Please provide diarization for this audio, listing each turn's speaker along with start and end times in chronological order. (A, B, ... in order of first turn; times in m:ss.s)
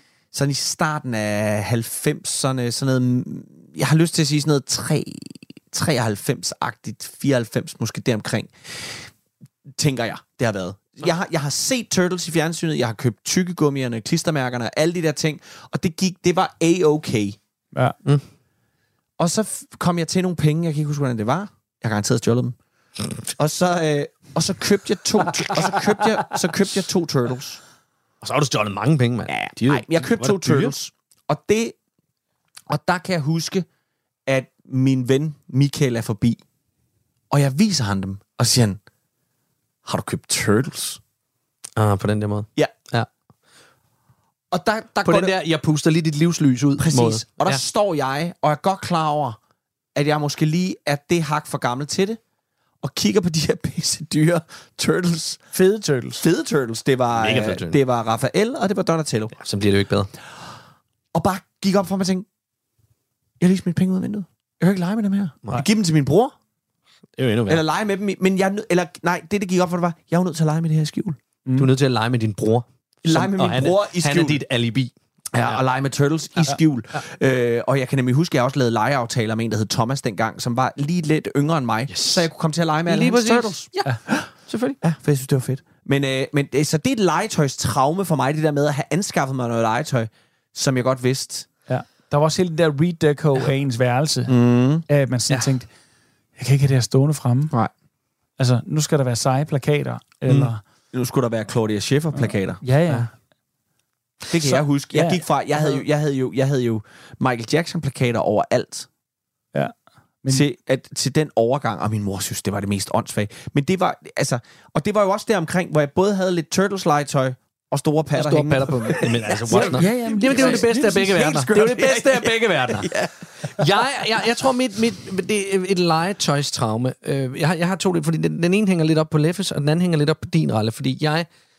0:00.3-0:09.1 A
0:09.8-0:17.4 A
0:19.2-0:22.6 A
0:23.2-0:27.6 A
0:28.2-0:30.7 B
0:29.3-0:31.8 A
0:32.7-0:33.7 A
0:34.3-0:36.4 A
0:37.3-0:38.8 A
0:39.8-0:41.0 A
0:41.8-0:43.1 B
0:44.5-0:45.4 A
0:45.0-0:47.6 B
0:46.8-0:49.4 A
0:50.0-0:52.2 A
0:52.8-0:55.4 A
0:55.5-0:56.2 C
0:56.2-0:59.4 A
0:57.2-0:57.8 B
0:59.4-1:00.1 B
1:01.1-1:02.3 A
1:03.4-1:06.3 A
1:07.2-1:07.6 B
1:07.5-1:11.2 A
1:11.6-1:15.6 B
1:13.0-1:14.4 A
1:15.3-1:24.3 A
1:21.9-1:22.3 B
1:22.9-1:24.8 B
1:24.8-1:31.5 A
1:31.7-1:34.3 C
1:34.3-1:34.8 A
1:34.9-1:35.7 C
1:36.4-1:37.5 C
1:38.4-1:40.6 C
1:40.9-1:42.6 A
1:42.1-1:43.1 C
1:44.3-1:48.9 A
1:44.4-1:45.7 C
1:49.5-1:50.5 C
1:50.3-2:03.6 A
1:58.2-2:11.3 B
1:59.5-2:01.2 C